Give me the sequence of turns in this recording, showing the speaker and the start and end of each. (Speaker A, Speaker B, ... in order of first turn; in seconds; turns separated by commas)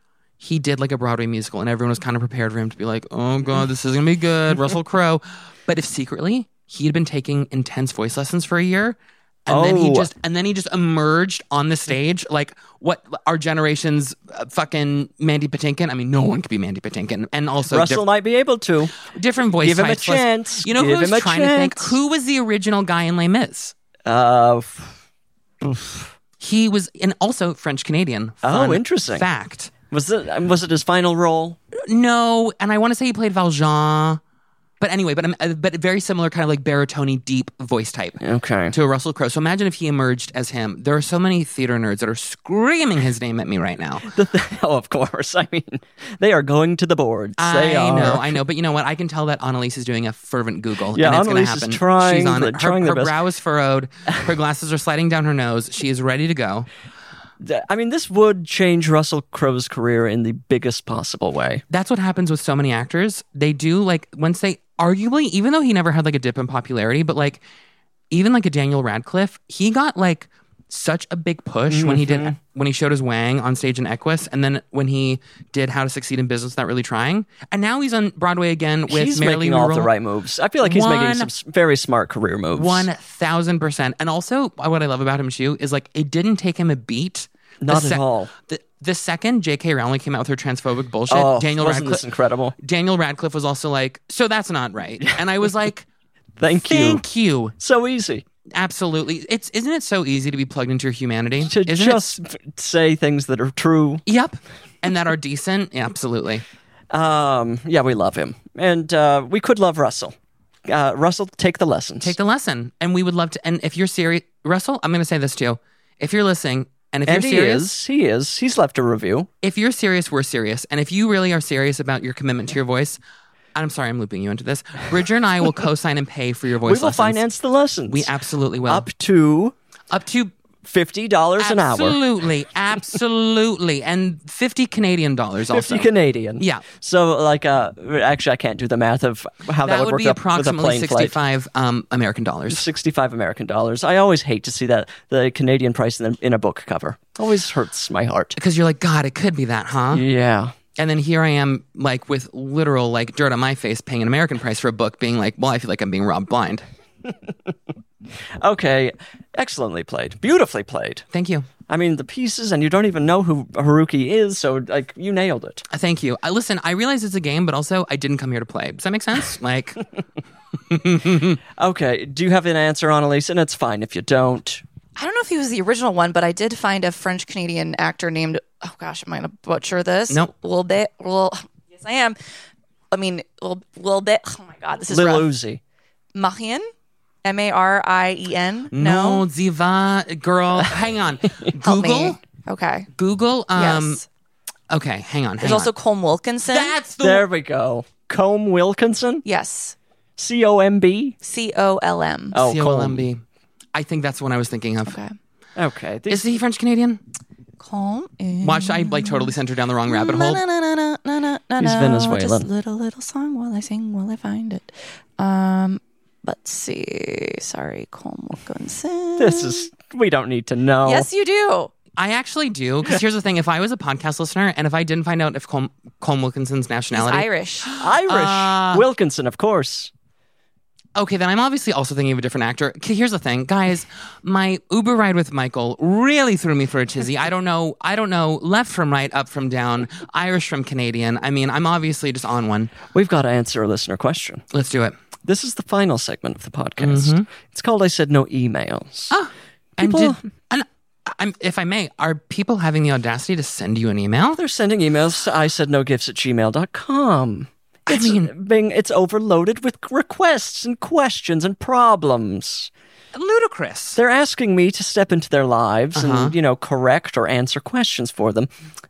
Speaker A: 0.4-18.0, Speaker B: 9.5-10.1, Speaker B: 17.7-18.9, Speaker A: 19.0-23.7, Speaker B: 19.6-22.0, Speaker B: 24.1-25.0, Speaker B: 25.6-26.1, Speaker A: 26.4-29.7, Speaker B: 28.4-29.3, Speaker B: 29.9-31.6, Speaker A: 31.8-34.2, Speaker A: 34.8-38.2, Speaker B: 38.2-38.8, Speaker A: 38.7-44.1, Speaker B: 44.1-48.4, Speaker A: 47.4-56.7, Speaker B: 50.9-53.2, Speaker B: 57.4-61.6, Speaker A: 61.7-67.4, Speaker A: 68.1-79.9, Speaker B: 71.7-72.4, Speaker B: 78.9-82.9, Speaker A: 80.6-81.3, Speaker A: 82.5-92.0, Speaker B: 87.6-88.3, Speaker B: 91.1-92.5, Speaker A: 92.6-95.9, Speaker B: 96.4-97.0, Speaker A: 96.5-97.5, Speaker B: 97.6-98.2, Speaker A: 98.5-102.2, Speaker B: 101.5-104.0, Speaker A: 104.1-106.4, Speaker B: 106.9-110.2, Speaker B: 110.7-112.2, Speaker A: 112.0-117.7, Speaker B: 117.1-119.3, Speaker A: 119.4-123.0, Speaker A: 123.5-127.2, Speaker B: 126.6-128.1, Speaker A: 127.9-128.9, Speaker B: 128.7-129.6, Speaker A: 129.9-130.3, Speaker B: 130.6-132.0, Speaker A: 131.4-136.6, Speaker B: 135.5-141.2, Speaker A: 139.6-142.7, Speaker B: 142.5-148.4, Speaker A: 148.4-150.1, Speaker B: 149.9-150.6, Speaker A: 150.8-156.6, Speaker B: 158.4-161.1, Speaker A: 161.1-161.5, Speaker B: 161.7-165.7, Speaker A: 165.7-169.8, Speaker A: 170.7-171.4, Speaker B: 171.6-174.6, Speaker C: 175.0-182.2, Speaker C: 182.9-185.3, Speaker B: 184.9-185.6, Speaker C: 186.2-186.7, Speaker C: 187.2-189.2, Speaker A: 188.7-192.2, Speaker C: 191.6-192.9, Speaker A: 192.9-194.0, Speaker C: 193.6-194.1, Speaker A: 194.7-195.7, Speaker C: 195.4-196.8, Speaker A: 196.5-197.3, Speaker B: 197.0-199.2, Speaker C: 199.2-199.8, Speaker B: 200.2-201.2, Speaker C: 201.2-202.4, Speaker B: 202.3-203.1, Speaker A: 202.3-203.2, Speaker A: 203.7-205.0, Speaker C: 204.9-205.2, Speaker B: 205.6-206.2, Speaker A: 206.1-207.0, Speaker C: 207.6-209.3, Speaker A: 208.4-210.4, Speaker C: 209.9-219.7, Speaker B: 211.6-212.5, Speaker B: 219.2-221.1, Speaker C: 220.8-221.7, Speaker A: 222.0-228.9, Speaker C: 226.9-227.7, Speaker B: 227.8-229.9, Speaker A: 231.0-242.7, Speaker B: 242.9-244.4, Speaker A: 244.5-244.9, Speaker B: 245.2-249.2, Speaker A: 246.8-247.3, Speaker A: 249.1-254.4, Speaker B: 249.8-250.2, Speaker B: 254.4-262.7, Speaker A: 257.9-258.3, Speaker A: 263.1-264.0, Speaker B: 264.0-268.5, Speaker A: 265.9-266.4